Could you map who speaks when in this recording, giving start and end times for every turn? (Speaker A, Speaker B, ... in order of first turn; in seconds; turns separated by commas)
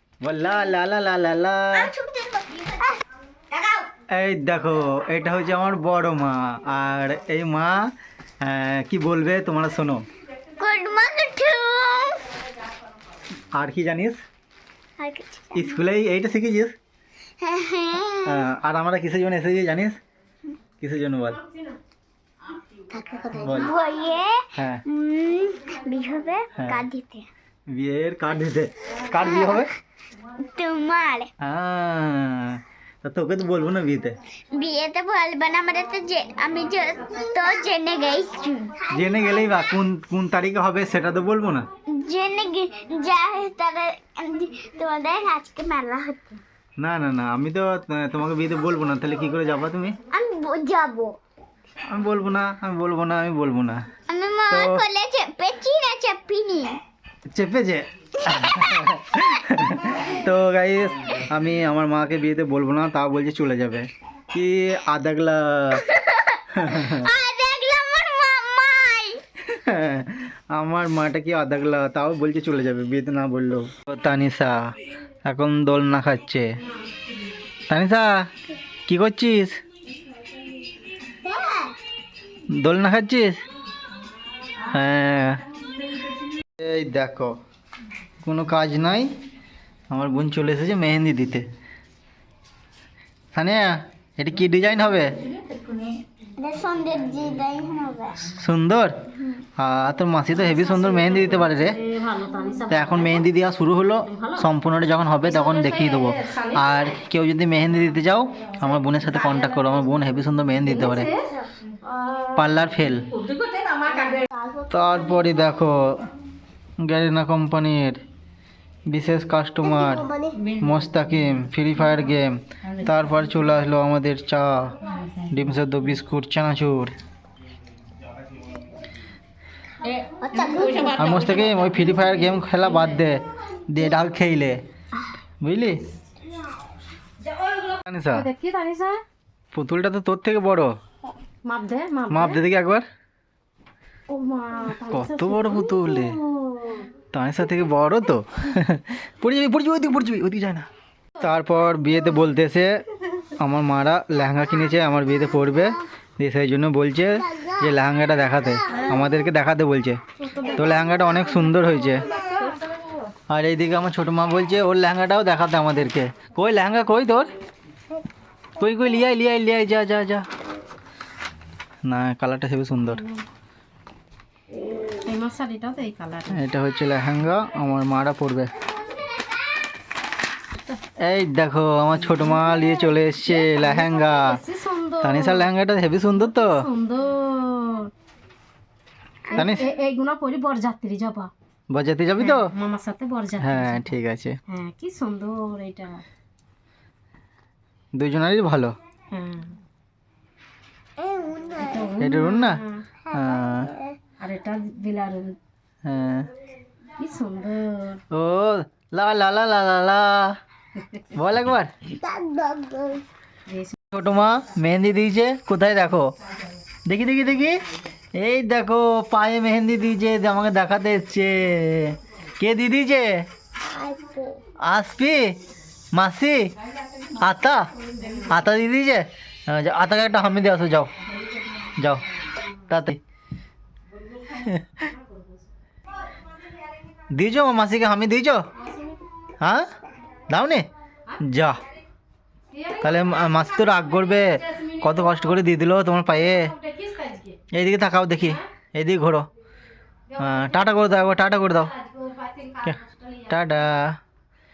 Speaker A: 0.2-1.9, Speaker B: 1.8-3.0, Speaker B: 3.5-3.8, Speaker A: 4.1-7.8, Speaker A: 8.4-10.0, Speaker B: 10.6-12.2, Speaker A: 13.5-14.2, Speaker B: 15.0-15.8, Speaker A: 15.5-16.7, Speaker B: 17.4-18.4, Speaker A: 18.2-20.0, Speaker A: 20.8-21.4, Speaker B: 22.9-27.3, Speaker A: 23.4-23.7, Speaker A: 24.5-24.8, Speaker A: 26.5-26.8, Speaker A: 27.7-29.7, Speaker B: 29.2-29.7, Speaker B: 30.4-31.3, Speaker A: 31.4-34.2, Speaker B: 34.5-39.2, Speaker A: 38.9-41.7, Speaker B: 41.9-46.4, Speaker A: 46.8-50.0, Speaker B: 50.1-51.2, Speaker A: 51.9-53.8, Speaker B: 54.1-56.8, Speaker A: 54.5-54.8, Speaker A: 57.3-65.8, Speaker B: 58.3-58.8, Speaker B: 65.7-69.2, Speaker A: 66.5-67.1, Speaker A: 69.4-74.7, Speaker A: 75.2-76.5, Speaker A: 77.7-78.1, Speaker A: 78.9-79.5, Speaker B: 81.2-81.8, Speaker A: 82.5-83.4, Speaker A: 84.7-85.4, Speaker A: 86.6-87.3, Speaker A: 88.2-89.1, Speaker A: 89.9-91.4, Speaker A: 93.3-95.2, Speaker B: 96.4-98.3, Speaker A: 98.3-99.0, Speaker A: 99.6-101.8, Speaker C: 100.6-103.2, Speaker A: 102.7-111.1, Speaker C: 104.1-104.4, Speaker C: 105.3-106.7, Speaker C: 110.7-111.3, Speaker C: 111.8-112.5, Speaker A: 112.3-113.1, Speaker C: 113.2-114.2, Speaker B: 114.1-114.7, Speaker A: 114.7-116.0, Speaker A: 116.8-118.0, Speaker A: 118.9-126.9, Speaker B: 119.8-120.4, Speaker C: 120.4-121.0, Speaker C: 122.7-122.9, Speaker C: 124.9-125.3, Speaker C: 129.8-132.9, Speaker B: 130.2-131.1, Speaker A: 130.9-134.6, Speaker A: 135.4-135.8, Speaker C: 137.4-139.0, Speaker A: 137.8-138.3, Speaker A: 139.5-140.8, Speaker C: 141.4-142.4, Speaker A: 142.1-142.8, Speaker C: 144.1-146.9, Speaker A: 144.8-146.2, Speaker A: 147.1-150.7, Speaker A: 151.2-152.8, Speaker A: 153.4-160.0, Speaker C: 158.7-159.0, Speaker C: 160.2-163.1, Speaker A: 160.5-162.1, Speaker A: 163.3-167.3, Speaker A: 168.6-170.2, Speaker A: 171.8-173.0, Speaker C: 172.8-173.2, Speaker C: 175.0-176.4, Speaker A: 176.3-178.5, Speaker B: 178.9-179.3, Speaker A: 181.0-184.4, Speaker C: 183.2-185.5, Speaker A: 185.0-186.6, Speaker C: 186.2-187.9, Speaker A: 189.3-189.7, Speaker C: 189.3-191.3, Speaker A: 191.7-192.5, Speaker C: 192.2-193.9, Speaker A: 193.4-194.4, Speaker C: 194.5-196.0, Speaker A: 198.0-198.8, Speaker C: 199.1-199.6, Speaker B: 201.0-201.9, Speaker C: 201.6-202.8, Speaker A: 202.0-203.7, Speaker B: 203.1-204.0, Speaker C: 204.2-205.4, Speaker A: 205.8-206.3, Speaker C: 207.0-208.0, Speaker A: 208.1-210.3, Speaker C: 210.8-211.1, Speaker A: 211.1-211.7, Speaker B: 212.0-213.1, Speaker C: 213.5-213.7, Speaker A: 213.9-216.1, Speaker A: 216.8-217.6, Speaker A: 218.2-223.1, Speaker B: 223.6-224.4, Speaker A: 224.6-225.3, Speaker A: 225.9-226.5, Speaker A: 227.2-227.6, Speaker C: 228.0-228.2, Speaker A: 228.3-230.9, Speaker A: 231.8-232.1, Speaker A: 232.7-233.0, Speaker A: 234.3-234.9, Speaker C: 234.9-235.2, Speaker A: 237.1-238.4, Speaker C: 238.6-239.0, Speaker A: 239.4-239.7, Speaker A: 240.3-240.7, Speaker A: 241.2-241.6, Speaker C: 242.5-245.2, Speaker A: 242.8-246.5, Speaker C: 246.3-247.4, Speaker A: 247.5-249.3, Speaker C: 250.1-250.7, Speaker A: 250.2-251.7, Speaker C: 251.8-253.3, Speaker A: 252.6-254.0